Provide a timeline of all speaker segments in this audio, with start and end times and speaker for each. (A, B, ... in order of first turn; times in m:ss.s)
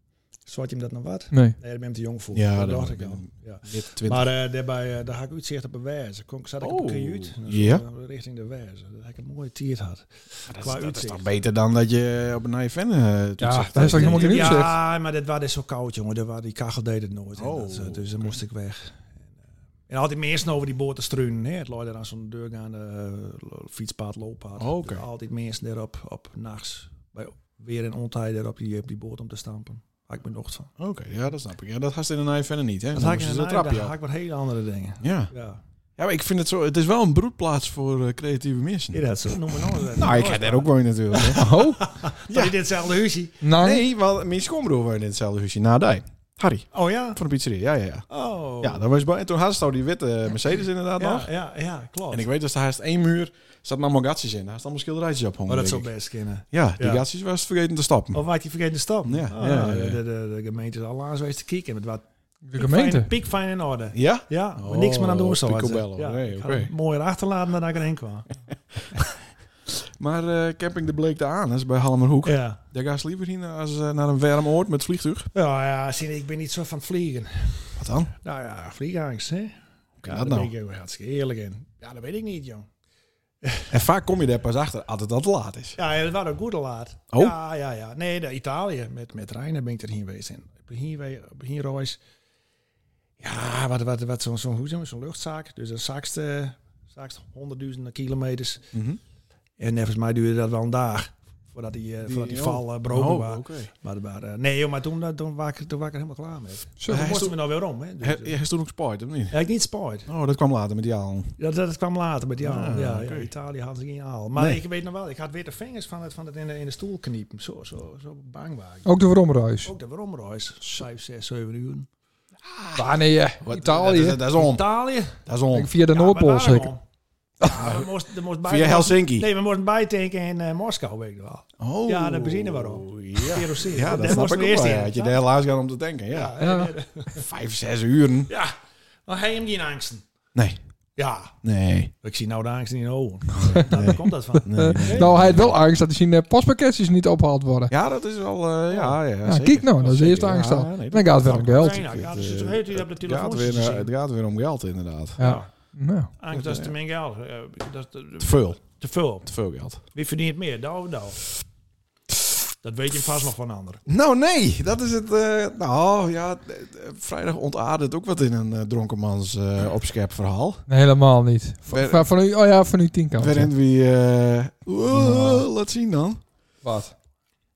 0:00.4-0:11.3 A
0:02.3-0:04.2 B
0:06.6-0:07.8 B
0:10.5-0:14.7 B
0:13.4-0:14.7 C
0:13.8-0:19.0 A
0:17.4-0:18.4 B
0:19.9-0:30.7 A
0:24.6-0:25.0 B
0:30.8-0:33.9 B
0:32.9-0:35.6 A
0:35.0-0:35.3 B
0:36.0-0:39.0 B
0:38.9-0:43.4 A
0:39.9-0:41.5 B
0:41.3-0:41.8 C
0:42.3-0:42.5 B
0:43.4-0:43.8 C
0:43.6-0:48.0 B
0:46.7-0:47.2 A
0:48.1-0:48.8 A
0:48.6-0:51.3 B
0:51.0-0:52.3 A
0:52.1-0:55.9 B
0:55.5-0:57.0 A
0:56.5-0:58.2 B
0:58.1-1:02.0 A
0:59.0-1:00.0 B
1:02.4-1:03.1 C
1:02.6-1:08.3 A
1:03.9-1:06.7 B
1:10.0-1:15.3 B
1:12.2-1:12.6 A
1:15.3-1:22.7 A
1:17.8-1:18.1 B
1:20.0-1:20.5 B
1:23.4-1:23.7 A
1:23.7-1:25.8 B
1:25.8-1:32.0 A
1:33.2-1:38.7 A
1:38.7-1:39.0 B
1:39.6-1:48.4 A
1:42.0-1:43.7 B
1:46.8-1:47.0 C
1:46.9-1:47.4 B
1:48.0-1:49.4 B
1:49.3-1:50.1 A
1:50.1-1:51.3 B
1:51.4-1:59.0 A
1:52.4-1:53.3 B
1:58.8-1:59.7 C
1:59.6-2:01.9 A
2:02.5-2:02.8 B
2:02.7-2:04.2 C
2:03.4-2:05.7 B
2:03.9-2:05.2 A
2:05.5-2:06.7 C
2:05.9-2:06.8 A
2:07.4-2:07.9 B
2:07.4-2:15.2 A
2:08.4-2:09.3 B
2:11.6-2:16.3 B
2:16.1-2:17.2 A
2:16.4-2:16.7 C
2:17.1-2:18.3 B
2:18.3-2:18.5 A
2:19.0-2:20.0 A
2:21.0-2:21.3 A
2:21.4-2:21.9 B
2:22.0-2:25.1 A
2:23.3-2:25.6 B
2:24.5-2:27.7 C
2:27.7-2:35.2 B
2:28.7-2:29.0 A
2:29.2-2:31.9 C
2:31.2-2:33.9 A
2:35.2-2:35.5 A
2:35.2-2:36.1 C
2:36.2-2:39.3 A
2:36.3-2:36.7 B
2:38.2-2:38.6 B
2:39.2-2:39.8 B
2:39.9-2:41.2 A
2:42.6-2:43.8 A
2:43.9-2:50.6 B
2:50.7-2:53.5 C
2:51.7-2:52.1 B
2:53.2-2:56.2 B
2:54.9-2:55.4 C
2:56.6-2:56.9 C